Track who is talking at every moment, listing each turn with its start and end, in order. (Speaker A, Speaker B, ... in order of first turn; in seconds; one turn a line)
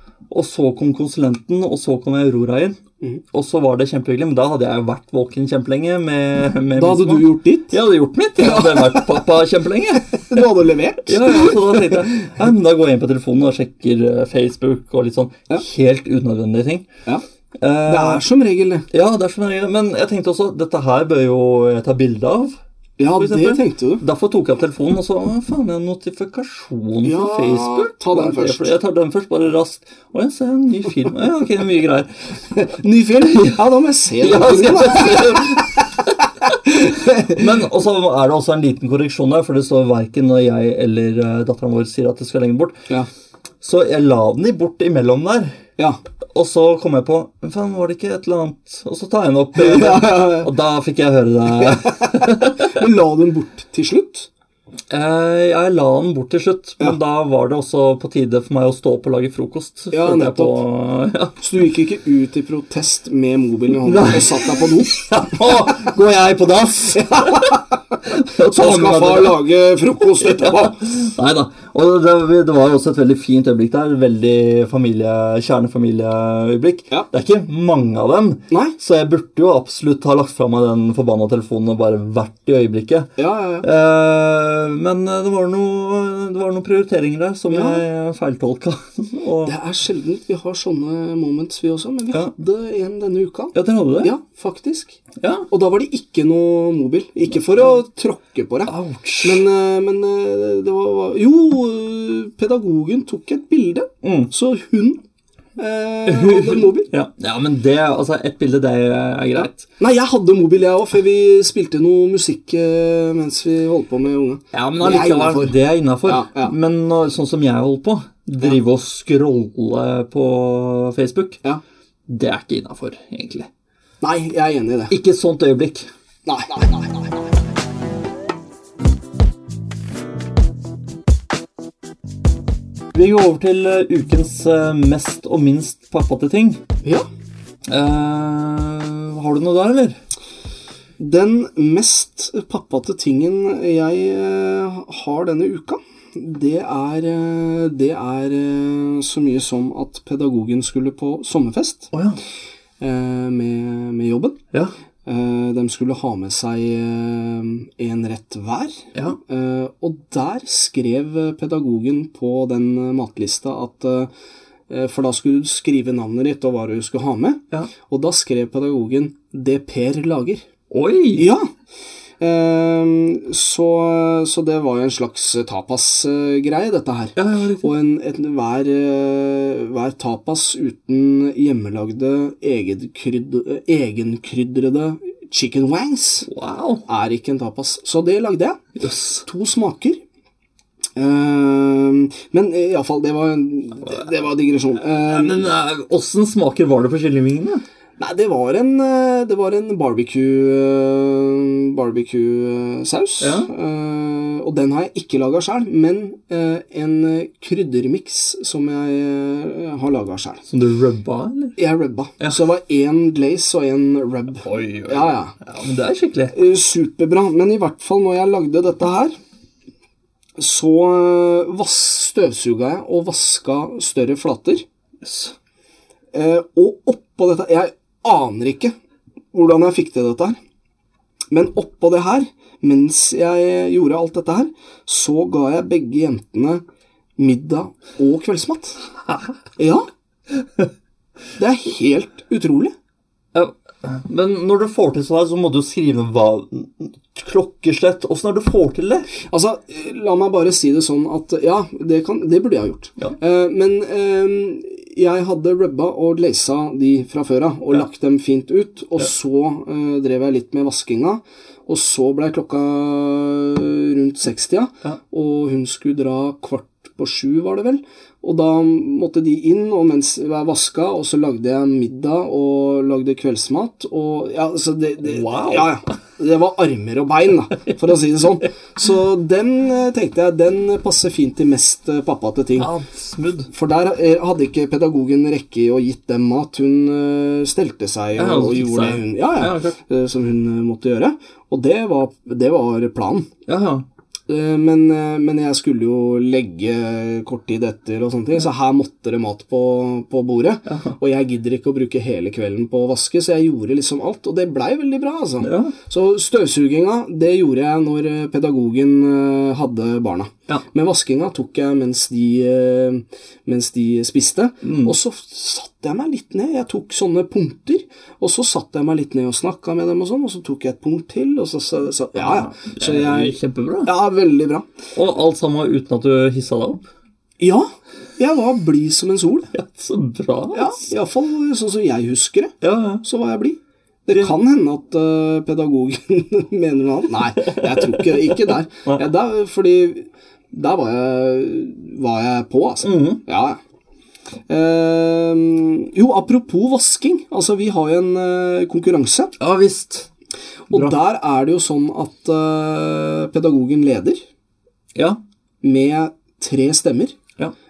Speaker A: 0.3-2.8
Speaker A: 3.3-10.4
Speaker B: 6.8-7.8
Speaker B: 8.4-9.2
Speaker B: 10.1-12.3
Speaker A: 11.1-16.9
Speaker A: 17.6-18.2
Speaker B: 17.9-18.9
Speaker A: 18.9-22.6
Speaker B: 23.0-24.0
Speaker A: 23.1-32.5
Speaker B: 27.0-28.7
Speaker B: 32.5-35.7
Speaker A: 33.3-33.6
Speaker A: 34.2-36.0
Speaker B: 36.5-37.4
Speaker A: 36.5-42.8
Speaker A: 43.6-45.6
Speaker A: 46.3-52.8
Speaker B: 49.5-50.5
Speaker B: 51.6-54.3
Speaker A: 54.9-61.4
Speaker B: 59.9-60.6
Speaker B: 61.4-65.1
Speaker A: 63.9-69.5
Speaker B: 67.0-70.8
Speaker A: 70.2-89.6
Speaker B: 83.2-83.7
Speaker B: 87.5-87.8
Speaker B: 89.5-105.0
Speaker A: 93.5-94.1
Speaker A: 95.2-95.5
Speaker A: 98.7-99.4
Speaker A: 104.0-104.3
Speaker B: 105.6-106.9
Speaker A: 106.1-109.7
Speaker B: 109.4-116.5
Speaker A: 114.5-121.4
Speaker A: 122.1-123.5
Speaker B: 124.0-124.9
Speaker A: 124.9-125.9
Speaker B: 126.3-126.7
Speaker A: 132.9-136.6
Speaker A: 137.7-140.0
Speaker B: 141.0-151.9
Speaker A: 151.9-152.2
Speaker B: 152.8-154.4
Speaker B: 155.1-164.1
Speaker B: 164.7-170.4
Speaker A: 170.7-171.3
Speaker B: 171.2-171.5
Speaker B: 172.2-186.3
Speaker A: 177.2-177.7
Speaker A: 186.3-186.8
Speaker B: 186.9-188.6
Speaker A: 188.8-189.2
Speaker B: 189.2-190.0
Speaker B: 191.0-195.5
Speaker A: 195.1-197.6
Speaker B: 198.0-210.4
Speaker A: 203.2-203.5
Speaker A: 210.5-211.6
Speaker B: 211.6-215.3
Speaker A: 214.4-216.3
Speaker B: 216.3-219.2
Speaker B: 220.4-224.6
Speaker A: 225.0-225.3
Speaker B: 226.1-228.8
Speaker B: 229.3-230.4
Speaker B: 231.3-236.6
Speaker B: 237.2-238.8
Speaker B: 239.6-239.9
Speaker A: 240.4-240.7
Speaker B: 241.4-242.7
Speaker A: 243.3-249.1
Speaker B: 249.2-282.7
Speaker A: 275.0-275.7
Speaker A: 282.6-283.5
Speaker B: 283.5-293.3
Speaker A: 288.2-289.8
Speaker A: 293.5-293.9
Speaker B: 294.3-324.7
Speaker A: 300.7-300.9
Speaker A: 305.4-305.7
Speaker A: 314.6-314.9
Speaker A: 322.2-323.9
Speaker A: 324.9-326.9
Speaker B: 327.4-329.5
Speaker A: 329.5-330.9
Speaker B: 330.5-343.6
Speaker A: 332.6-333.0
Speaker A: 337.6-339.0
Speaker A: 342.8-343.2
Speaker B: 344.5-349.4
Speaker A: 349.4-350.1
Speaker B: 350.7-354.2
Speaker A: 350.7-351.0
Speaker A: 354.9-355.2
Speaker B: 355.6-357.2